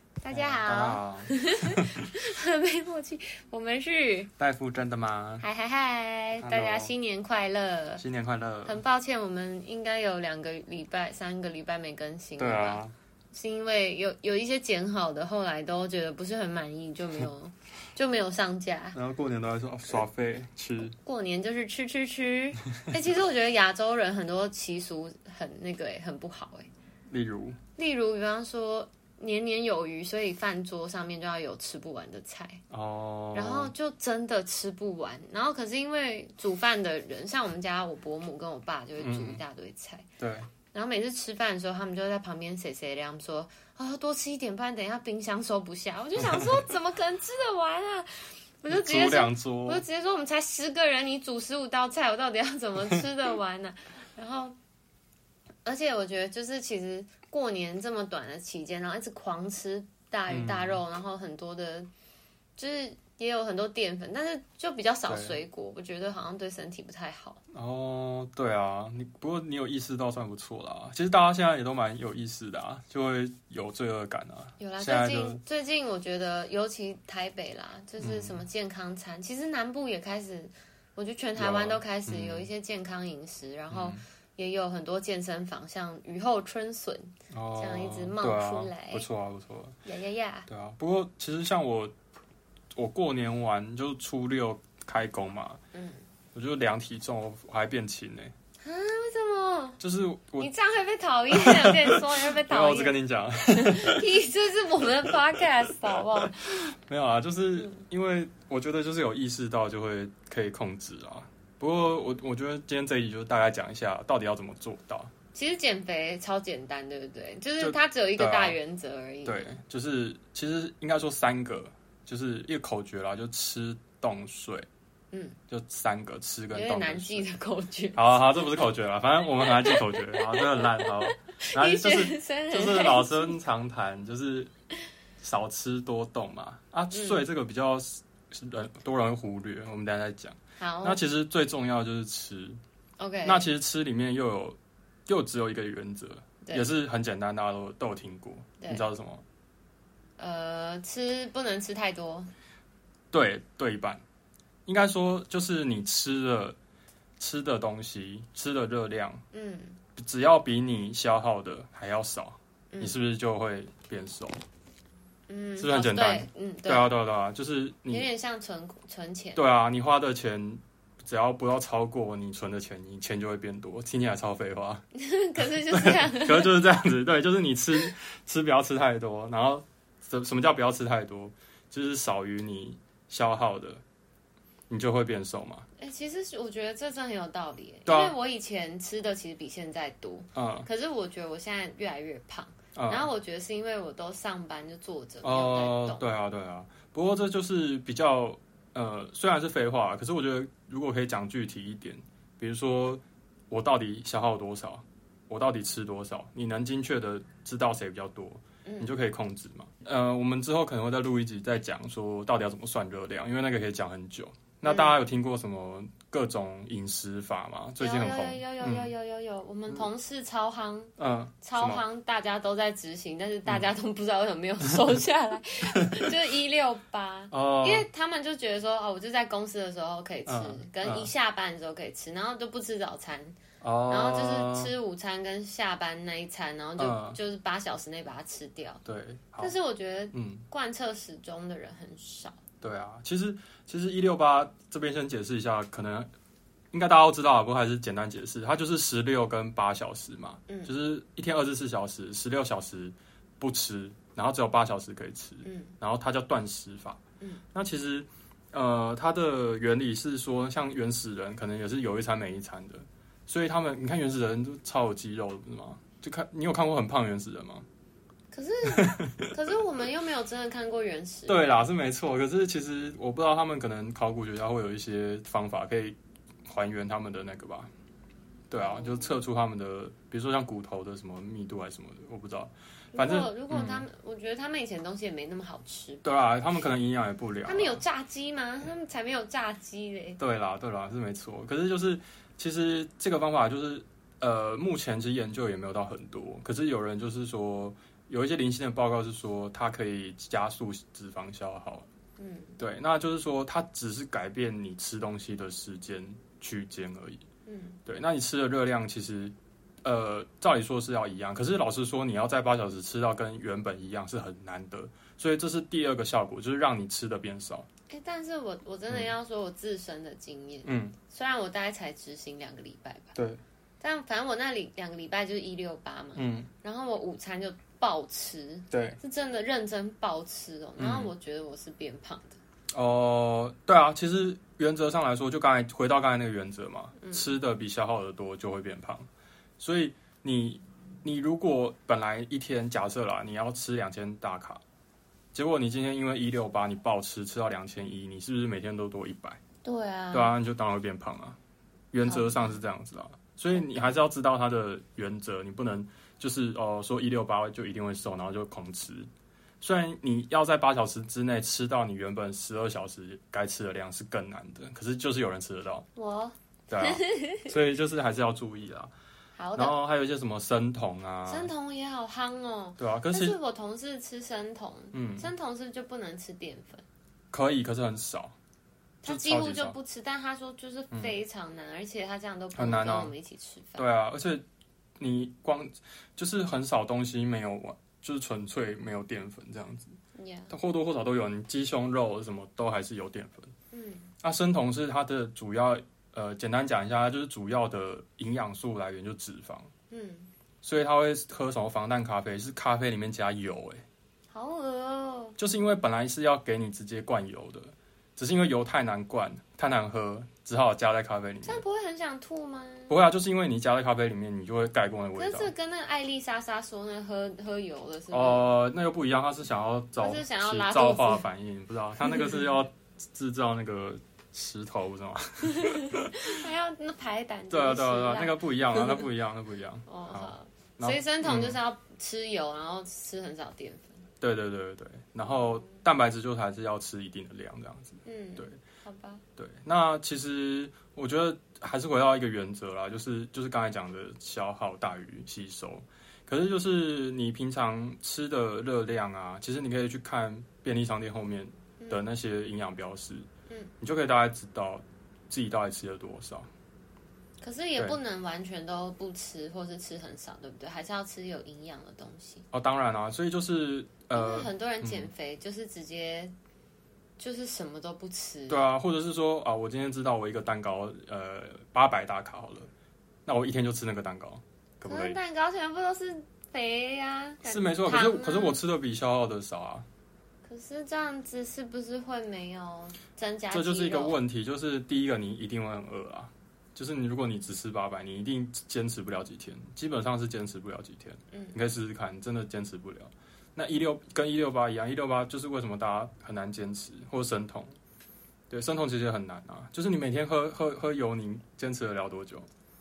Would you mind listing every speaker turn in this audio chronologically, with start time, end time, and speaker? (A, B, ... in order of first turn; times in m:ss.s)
0:00.2-0:04.3 A
0:00.3-0:02.0 B
0:04.4-0:05.4 B
0:05.4-0:08.0 A
0:06.4-0:06.9 B
0:08.0-0:08.8 B
0:08.7-0:12.8 A
0:12.4-0:12.9 B
0:13.3-0:19.0 A
0:18.9-0:21.0 B
0:20.9-0:26.7 A
0:27.1-0:27.6 B
0:27.8-0:32.6 A
0:32.7-0:33.7 B
0:33.3-0:40.1 A
0:39.0-0:39.4 B
0:40.2-0:40.6 B
0:40.7-0:54.6 A
0:46.2-0:46.5 B
0:48.7-0:49.8 B
0:55.6-1:01.9 A
1:00.3-1:00.8 B
1:02.6-1:07.4 A
1:05.1-1:05.4 B
1:07.5-1:15.4 B
1:14.6-1:29.1 A
1:18.0-1:18.4 B
1:21.4-1:22.5 B
1:23.7-1:24.0 B
1:27.3-1:29.8 B
1:29.8-1:30.5 A
1:30.5-1:31.9 B
1:32.8-1:35.6 B
1:35.7-1:36.0 A
1:36.3-1:38.3 B
1:38.6-1:39.8 A
1:39.8-1:40.5 B
1:40.4-1:43.0 A
1:41.3-1:44.1 B
1:43.5-1:46.6 A
1:45.7-1:55.1 B
1:55.3-1:59.5 A
1:57.6-1:58.6 B
1:59.2-2:04.7 B
2:05.1-2:05.4 A
2:05.5-2:07.3 B
2:06.5-2:08.2 A
2:08.0-2:14.5 B
2:09.4-2:13.4 A
2:15.2-2:22.6 B
2:16.9-2:17.2 A
2:20.6-2:21.0 A
2:23.0-2:23.5 A
2:23.2-2:29.2 B
2:28.6-2:28.9 A
2:30.2-2:32.3 A
2:33.1-2:34.0 B
2:34.7-2:36.6 B
2:37.2-2:39.2 B
2:39.3-2:39.8 A
2:39.9-2:44.4 B
2:42.7-2:43.0 A
2:45.3-2:47.0 A
2:45.6-2:48.1 B
2:47.9-2:49.4 A
2:49.4-2:54.8 B
2:54.9-2:56.6 A
2:55.6-3:03.8 B
3:04.7-3:05.7 B
3:05.8-3:16.1 A
3:07.9-3:08.2 B
3:10.4-3:10.7 B
3:12.7-3:13.1 B
3:15.2-3:38.9 B
3:28.6-3:29.0 A
3:34.6-3:35.0 A
3:37.8-3:58.8 A
3:41.0-3:41.8 B
3:47.3-3:47.9 B
3:50.3-3:51.1 B
3:53.6-3:54.8 B
3:56.8-3:57.2 B
3:58.8-3:59.5 B
3:59.4-4:02.4 A
4:00.1-4:00.5 B
4:02.6-4:06.1 B
4:06.7-4:27.6 B
4:10.5-4:10.7 A
4:15.4-4:15.7 A
4:28.3-4:31.7 A
4:28.7-4:29.3 B
4:31.3-4:36.0 B
4:36.5-4:37.7 B
4:38.5-4:43.9 B
4:38.6-4:39.1 A
4:42.9-4:46.1 A
4:46.0-4:47.8 B
4:47.4-4:50.2 A
4:50.2-5:01.9 B
5:02.2-5:02.6 A
5:02.6-5:07.3 B
5:07.5-5:07.8 A
5:07.8-5:17.7 B
5:17.9-5:23.1 A
5:20.6-5:21.0 B
5:23.2-5:23.4 B
5:23.8-5:32.4 A
5:26.2-5:26.5 B
5:28.7-5:29.0 B
5:30.8-5:31.1 B
5:32.7-5:39.1 B
5:39.6-5:44.6 B
5:45.3-5:49.4 B
5:49.6-5:50.4 A
5:50.1-5:51.4 B
5:51.9-5:59.1 B
5:52.0-5:52.6 A
5:53.5-5:54.0 A
5:59.6-6:05.9 B
6:06.0-6:07.6 A
6:06.7-6:08.9 B
6:09.4-6:09.8 A
6:09.6-6:11.5 B
6:11.3-6:16.8 A
6:12.8-6:13.4 B
6:14.9-6:15.3 B
6:17.3-6:18.3 B
6:19.0-6:23.8 A
6:19.0-6:19.8 B
6:20.9-6:21.2 B
6:22.6-6:23.1 B
6:23.8-6:24.4 B
6:25.0-6:30.0 B
6:30.2-6:30.5 A
6:30.5-6:33.5 B
6:33.7-6:34.1 A
6:34.2-6:39.7 B
6:39.9-6:40.3 A
6:40.6-6:43.8 B
6:44.3-6:45.4 A
6:45.4-6:51.6 B
6:51.4-6:53.0 A
6:52.9-6:55.5 B
6:55.2-6:58.5 A
6:58.1-7:06.3 B
7:00.0-7:01.3 A
7:02.0-7:02.5 A
7:05.6-7:09.1 A
7:07.5-7:11.6 B
7:09.9-7:14.0 A
7:14.2-7:18.6 B
7:15.3-7:15.6 A
7:18.0-7:19.2 A
7:19.4-7:33.3 B
7:31.8-7:32.1 A
7:33.8-7:36.5 B
7:37.4-7:42.5 A
7:42.5-7:45.1 B
7:44.1-7:46.3 A
7:47.2-7:48.7 A
7:48.5-7:52.7 B
7:53.3-7:55.2 B
7:54.8-7:58.6 A
7:57.4-7:59.9 B
8:00.4-8:04.2 A
8:03.5-8:17.7 B
8:18.5-8:22.5 B